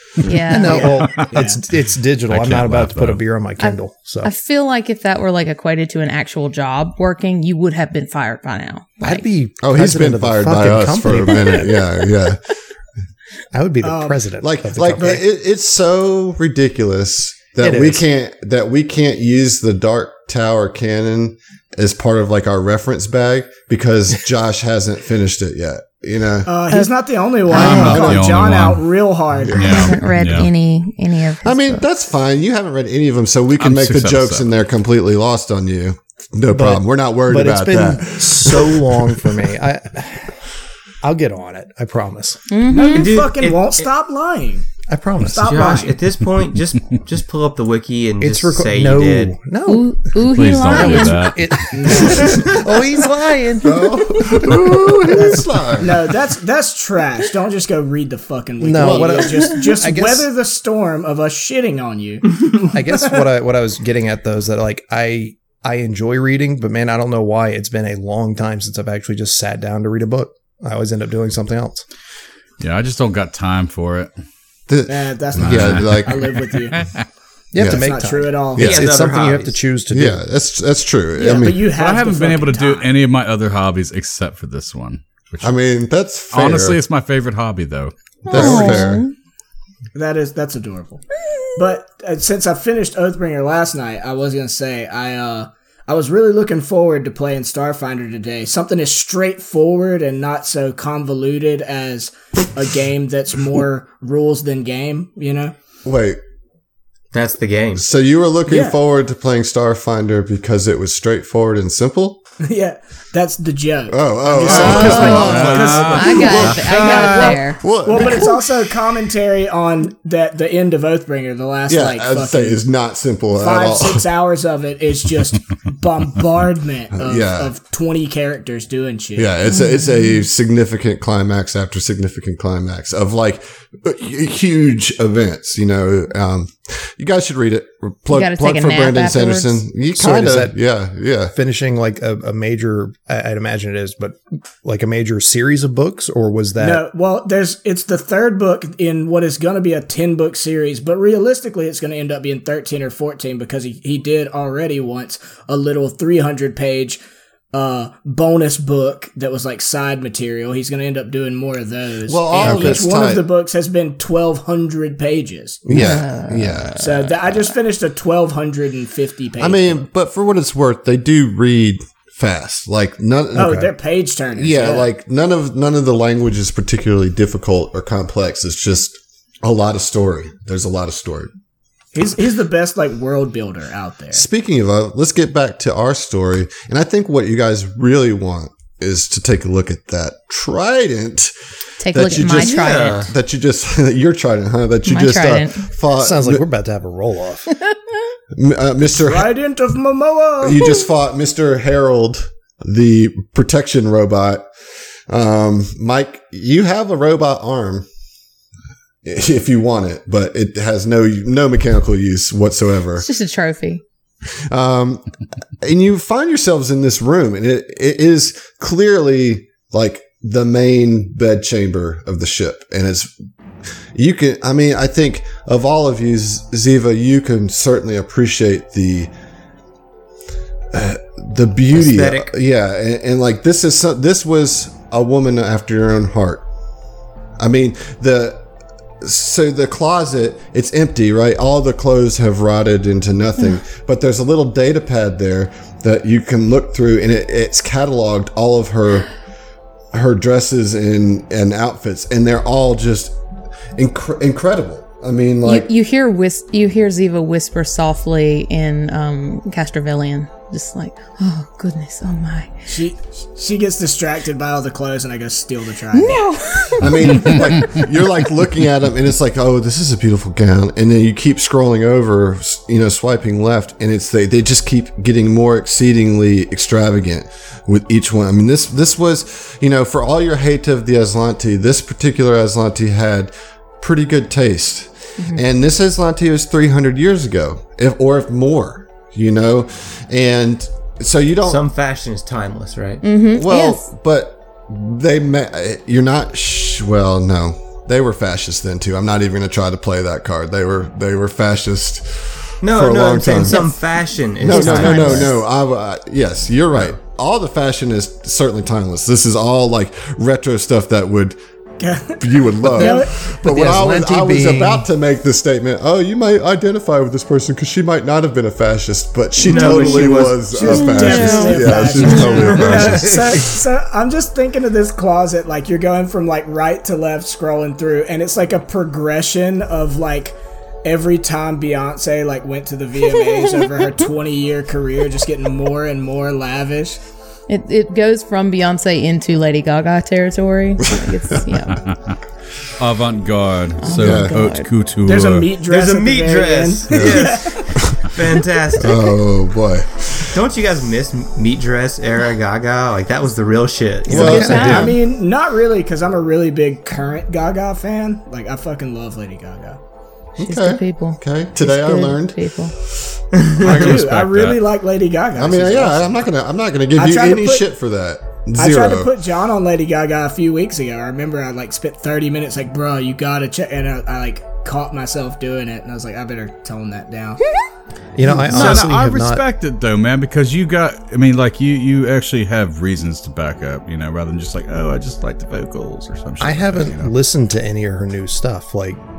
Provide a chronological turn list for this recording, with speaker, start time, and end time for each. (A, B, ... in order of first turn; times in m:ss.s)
0:00.2-0:00.9 A
0:00.5-0:04.3 B
0:00.6-0:01.6 C
0:02.3-0:03.2 D
0:03.6-0:09.3 A
0:09.0-0:11.8 B
0:09.6-0:12.5 E
0:13.5-0:15.2 B
0:13.8-0:14.2 C
0:14.4-0:26.6 E
0:17.6-0:18.0 B
0:26.5-0:29.8 C
0:27.5-0:28.2 A
0:27.5-0:28.8 D
0:27.7-0:28.3 E
0:29.4-0:30.0 E
0:29.5-0:30.5 D
0:29.6-0:31.8 A
0:31.4-0:39.4 E
0:33.6-0:34.5 D
0:36.5-0:40.4 B
0:41.0-0:42.5 B
0:42.5-0:43.3 A
0:42.7-0:44.7 C
0:42.8-0:43.9 F
0:44.9-0:45.9 B
0:45.3-0:46.0 C
0:45.4-0:49.4 F
0:48.2-0:50.0 B
0:49.6-0:51.4 A
0:50.3-0:51.8 D
0:50.7-0:54.0 B
0:51.8-0:52.6 C
0:53.6-0:56.0 E
0:53.9-0:54.2 A
0:55.8-1:03.2 C
0:58.6-1:00.3 B
1:02.7-1:11.9 B
1:12.6-1:14.1 D
1:14.7-1:16.3 E
1:14.9-1:16.8 C
1:15.4-1:17.0 D
1:17.5-1:20.2 B
1:17.6-1:17.9 E
1:17.6-1:18.8 C
1:18.6-1:18.9 E
1:18.6-1:19.6 F
1:19.9-1:21.6 E
1:21.2-1:22.9 C
1:21.6-1:25.5 D
1:25.4-1:26.8 E
1:26.3-1:28.4 D
1:28.2-1:29.1 A
1:28.3-1:29.0 E
1:30.0-1:31.0 C
1:31.6-1:45.6 C
1:45.8-1:46.2 E
1:47.1-1:47.8 F
1:47.8-1:52.2 E
1:48.5-1:48.8 C
1:52.4-2:02.6 C
1:53.9-1:55.8 E
1:54.5-1:57.4 D
1:54.5-1:58.3 A
1:57.6-1:58.4 E
2:01.7-2:04.1 E
2:03.4-2:09.3 C
2:06.9-2:07.5 E
2:09.2-2:21.3 E
2:09.6-2:09.9 A
2:18.1-2:19.6 A
2:19.9-2:20.6 B
2:21.3-2:26.8 B
2:26.6-2:37.0 C
2:37.5-2:45.6 C
2:42.1-2:43.3 E
2:45.7-2:46.8 E
2:45.7-2:47.5 A
2:46.8-2:49.8 C
2:49.4-2:53.7 E
2:53.4-2:54.9 C
2:54.4-3:01.3 E
3:01.9-3:04.2 C
3:04.1-3:11.3 E
3:11.8-3:13.1 A
3:11.9-3:16.5 E
3:12.3-3:13.1 F
3:14.9-3:15.7 A
3:15.1-3:17.5 B
3:18.3-3:19.3 E
3:19.0-3:20.7 C
3:20.4-3:24.5 E
3:25.1-3:27.9 E
3:29.0-3:33.1 E
3:33.0-3:33.8 A
3:34.3-3:35.0 E
3:35.6-3:43.1 E
3:43.9-3:49.1 E
3:50.7-3:56.5 E
3:51.7-3:52.3 F
3:57.4-3:58.5 E
3:59.0-4:09.1 E
4:09.9-4:13.2 E
4:13.8-4:15.7 E
4:15.5-4:22.5 A
4:22.7-4:26.3 C
4:25.9-4:27.5 A
4:26.8-4:51.6 E
4:51.5-4:53.0 F
4:53.0-4:53.9 A
4:53.3-5:03.7 E
5:02.6-5:05.3 F
5:04.4-5:11.4 E
5:04.5-5:05.4 A
5:11.8-5:13.1 C
5:12.2-5:23.5 E
5:13.4-5:14.9 B
5:19.4-5:20.5 F
5:19.4-5:37.0 C
5:20.7-5:22.7 A
5:37.5-5:41.8 A
5:40.8-5:41.4 E
5:42.8-5:45.5 D
5:43.8-5:44.7 A
5:44.0-5:44.4 E
5:45.0-5:47.8 C
5:45.6-5:49.1 F
5:48.8-5:50.4 E
5:50.3-5:54.9 F
5:54.1-5:55.0 A
5:54.1-5:55.0 E
5:54.1-5:59.8 C
5:54.2-5:55.0 B
6:00.4-6:02.4 E
6:00.4-6:02.8 A
6:03.6-6:04.6 D
6:03.6-6:06.3 C
6:05.4-6:09.1 E
6:07.0-6:07.6 C
6:08.6-6:17.4 C
6:18.2-6:19.5 B
6:18.4-6:27.1 D
6:18.6-6:18.9 C
6:26.4-6:29.0 B